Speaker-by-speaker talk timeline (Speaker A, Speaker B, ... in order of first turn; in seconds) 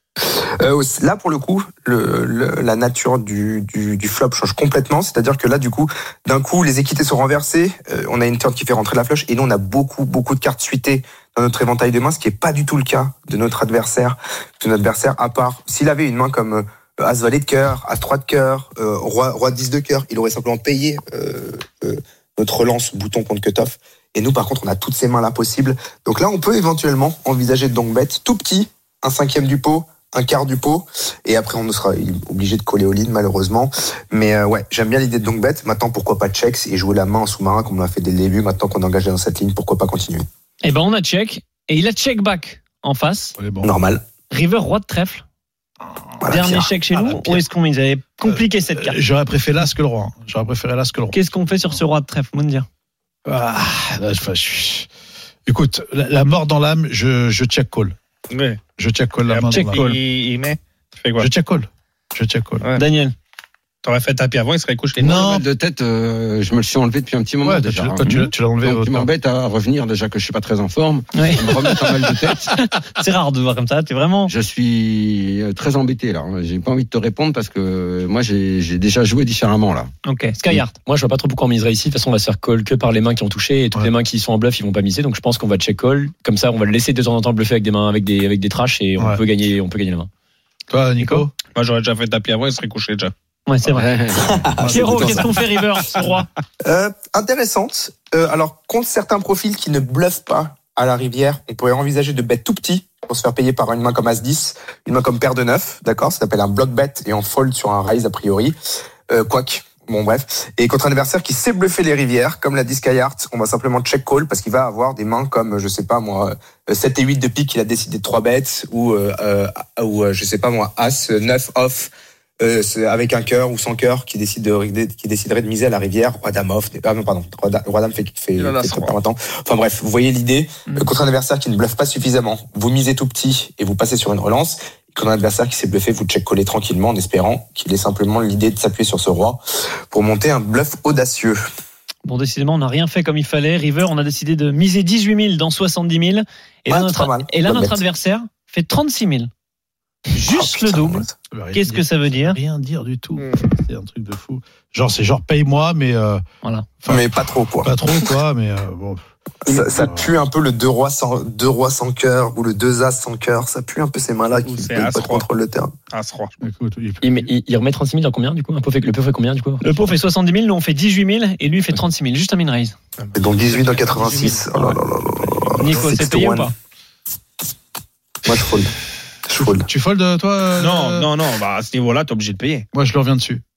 Speaker A: 0.2-40.3, 43.6-44.1, 46.2-47.4, 96.6-108.6, 109.1-141.4, 146.7-147.8, 150.2-151.1, 156.9-157.8, 159.4-165.7, 173.1-176.5, 178.2-178.7, 179.3-179.7
Speaker B: 40.6-43.4, 44.3-45.2, 46.3-49.0, 51.1-52.7, 59.5-59.8, 62.8-63.1, 71.1-74.3, 80.0-80.7, 93.5-94.0, 94.6-96.3, 142.1-149.3, 150.1-152.4, 156.4-156.8, 169.6-172.8, 175.6-176.5
Speaker C: 43.4-43.7, 45.9-46.3, 48.3-51.2, 53.3-54.9, 55.5-58.0, 58.8-60.0, 61.2-62.7, 65.0-65.5, 67.4-69.1, 90.7-91.3, 94.5-95.4, 151.3-156.2, 156.8-157.1, 157.6-160.2, 166.4-167.3, 175.6-175.9, 179.3-181.1, 182.7-183.4
Speaker D: 58.3-58.6, 59.3-61.3, 63.8-65.3, 91.5-93.1, 128.3-129.0, 164.3-165.3, 165.9-166.4, 173.0-174.4, 180.6-182.7
Speaker E: 65.1-68.0, 68.6-72.5, 74.3-79.9, 93.7-95.3
Speaker F: 80.8-90.1, 167.0-169.6